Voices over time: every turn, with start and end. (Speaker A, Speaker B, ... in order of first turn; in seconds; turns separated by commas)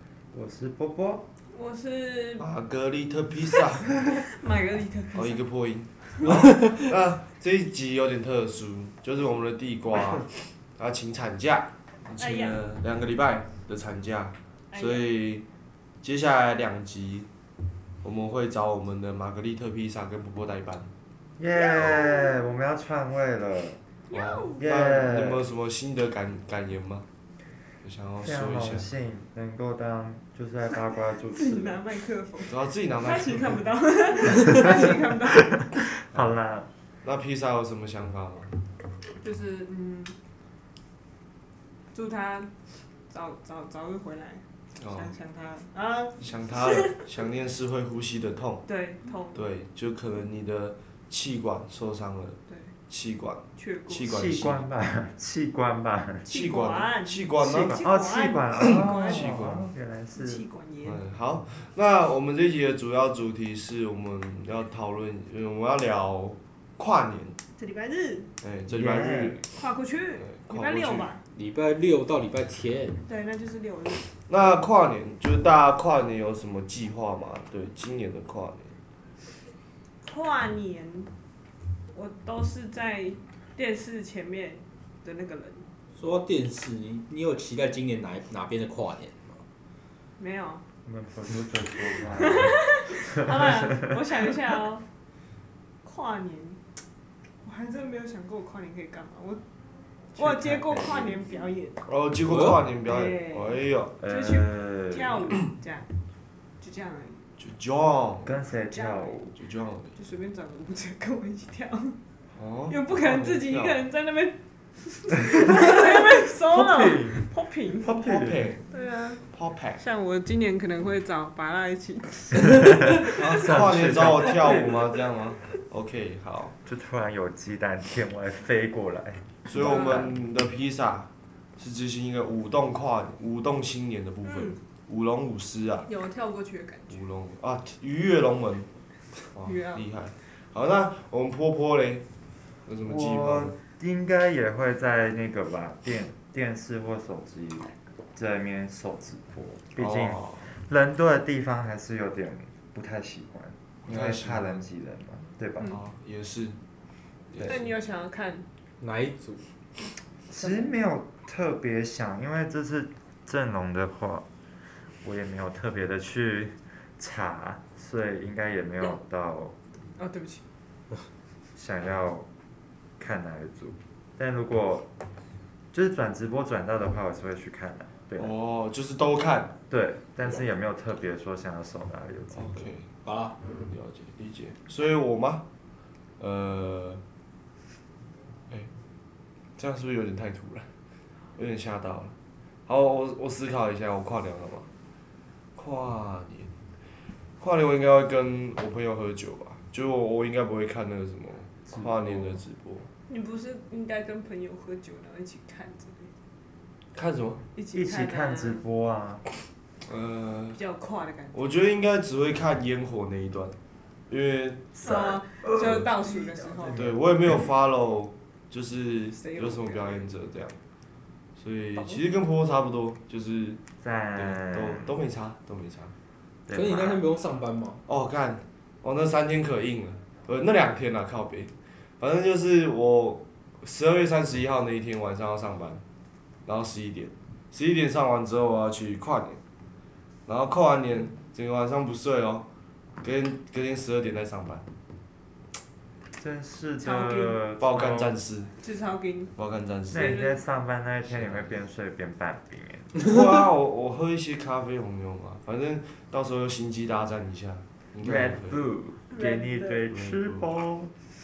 Speaker A: 0.3-1.2, Speaker B: 1.5-2.5, Speaker C: 2.4-4.0, Speaker B: 3.9-5.4, Speaker C: 5.1-15.4, Speaker B: 12.2-12.6, Speaker B: 14.7-15.1, Speaker C: 16.0-17.3, Speaker C: 18.0-20.9, Speaker A: 21.4-23.8, Speaker B: 21.7-22.4, Speaker B: 24.1-24.6, Speaker C: 24.1-27.1, Speaker A: 24.6-25.4, Speaker C: 27.8-28.9, Speaker A: 28.2-31.8, Speaker B: 31.1-35.7, Speaker C: 32.5-33.6, Speaker A: 35.7-36.7, Speaker C: 36.1-36.4, Speaker C: 37.0-38.5, Speaker B: 39.2-40.1, Speaker B: 41.9-42.5, Speaker B: 43.1-46.9, Speaker C: 44.8-45.1, Speaker C: 46.2-48.6, Speaker B: 48.7-49.4, Speaker C: 49.3-52.4, Speaker C: 52.9-54.7, Speaker B: 53.6-54.2, Speaker A: 54.0-56.3, Speaker B: 56.2-59.3, Speaker C: 56.3-57.8, Speaker A: 57.4-60.4, Speaker C: 58.6-59.7, Speaker B: 60.1-61.0, Speaker C: 60.8-67.4, Speaker B: 67.6-68.3, Speaker C: 68.4-69.5, Speaker A: 68.7-69.4, Speaker B: 69.5-71.2, Speaker C: 70.2-71.1, Speaker D: 71.3-73.0, Speaker B: 73.1-74.1, Speaker C: 74.3-78.7, Speaker B: 80.0-81.1, Speaker B: 81.9-85.7, Speaker D: 86.0-89.4, Speaker B: 90.2-90.6, Speaker A: 90.8-94.0, Speaker B: 92.2-94.8, Speaker B: 95.8-96.6, Speaker B: 97.4-99.4, Speaker B: 100.1-101.8, Speaker A: 100.2-101.2, Speaker C: 101.9-104.0, Speaker D: 102.2-102.6, Speaker B: 102.9-105.9, Speaker A: 104.0-105.5, Speaker B: 106.6-107.3, Speaker C: 107.4-108.5, Speaker A: 108.2-109.3, Speaker B: 108.7-109.2, Speaker C: 109.3-109.9, Speaker B: 110.0-112.0, Speaker C: 112.3-113.8, Speaker B: 112.7-118.0, Speaker A: 116.5-117.3, Speaker A: 117.8-118.5, Speaker C: 118.0-118.6, Speaker B: 118.7-119.2, Speaker C: 119.3-119.8, Speaker B: 119.8-123.2, Speaker A: 122.5-124.9, Speaker C: 123.0-126.5, Speaker A: 126.7-130.1, Speaker C: 129.5-135.9, Speaker B: 129.5-130.1, Speaker B: 134.2-134.6, Speaker B: 135.9-137.0, Speaker C: 136.9-138.7, Speaker C: 139.3-142.1, Speaker B: 139.4-139.9, Speaker C: 142.7-143.6, Speaker A: 142.8-155.7, Speaker C: 149.8-150.5, Speaker C: 153.9-154.6, Speaker C: 155.6-156.6, Speaker C: 157.3-157.7, Speaker B: 157.5-158.5, Speaker D: 158.8-159.4, Speaker A: 160.3-164.2, Speaker A: 165.0-169.5, Speaker B: 170.0-170.4, Speaker A: 171.6-172.3, Speaker A: 173.0-174.9, Speaker A: 175.7-178.3, Speaker C: 178.2-179.5, Speaker A: 179.7-182.7, Speaker C: 182.3-182.9, Speaker D: 183.0-183.4, Speaker C: 183.7-185.4, Speaker C: 186.2-187.0, Speaker C: 189.6-190.7, Speaker C: 191.4-192.1, Speaker C: 192.7-194.7, Speaker C: 195.6-196.5, Speaker C: 197.4-202.9, Speaker A: 201.7-202.4, Speaker B: 203.1-206.1, Speaker C: 206.9-207.4, Speaker B: 207.6-208.6, Speaker A: 207.7-209.2, Speaker C: 209.8-210.6, Speaker B: 210.5-211.6, Speaker C: 211.3-213.6, Speaker C: 214.1-215.1, Speaker A: 214.8-217.4, Speaker B: 214.8-216.9, Speaker C: 216.8-220.6, Speaker B: 219.2-220.1, Speaker C: 221.4-223.6, Speaker B: 221.8-222.1, Speaker A: 223.8-225.0, Speaker C: 224.2-225.9, Speaker A: 226.5-227.0, Speaker D: 226.5-227.8, Speaker C: 227.9-235.8, Speaker C: 236.5-239.4, Speaker C: 240.3-242.4, Speaker C: 243.0-244.6, Speaker A: 246.2-248.2, Speaker B: 246.8-247.4, Speaker C: 247.6-248.5, Speaker B: 248.6-249.3, Speaker C: 249.4-250.1, Speaker A: 249.9-253.0, Speaker B: 249.9-250.4, Speaker C: 251.1-251.6, Speaker C: 253.0-258.6, Speaker A: 258.0-260.9, Speaker B: 259.1-259.8, Speaker C: 259.9-260.6